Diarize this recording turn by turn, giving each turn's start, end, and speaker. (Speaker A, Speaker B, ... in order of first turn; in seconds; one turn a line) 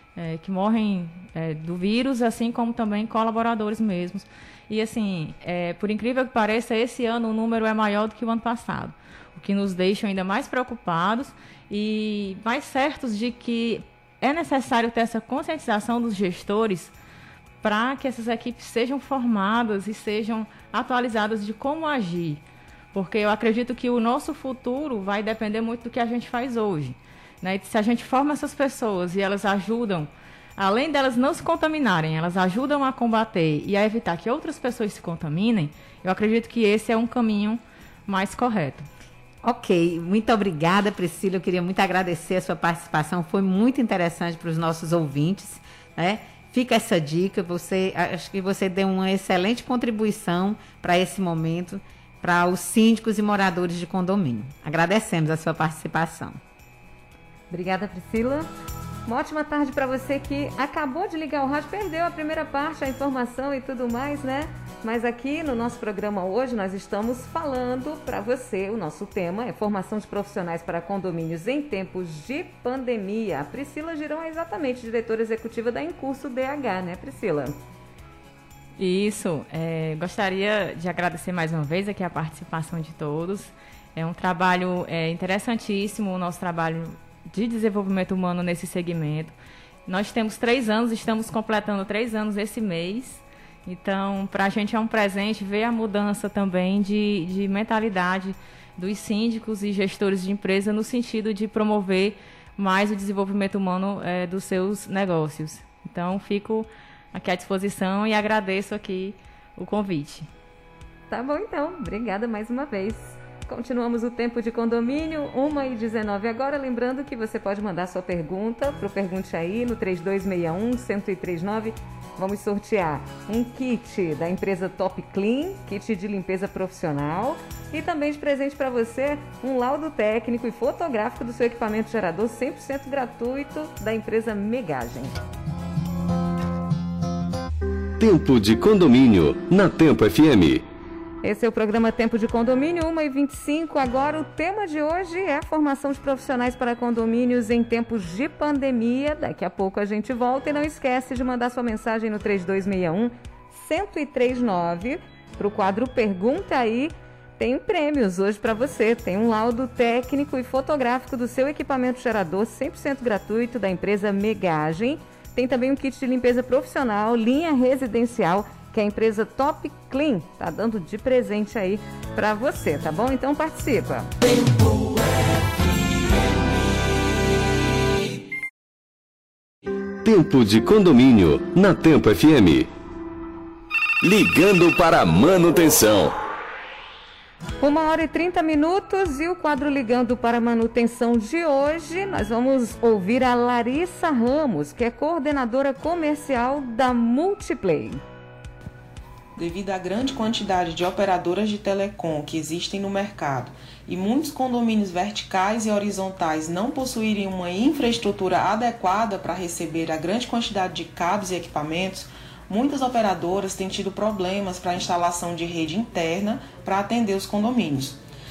Speaker A: 0.1-16.9
Speaker A: 17.6-22.4
Speaker A: 22.9-38.9
Speaker B: 39.4-56.4
Speaker C: 57.5-58.4
Speaker C: 59.0-77.5
Speaker A: 78.8-89.3
Speaker A: 89.9-110.3
Speaker C: 111.1-135.1
Speaker D: 138.0-140.6
Speaker C: 141.2-174.1
Speaker D: 180.0-182.7
Speaker D: 184.0-186.2
Speaker C: 187.6-198.0
Speaker E: 199.4-218.0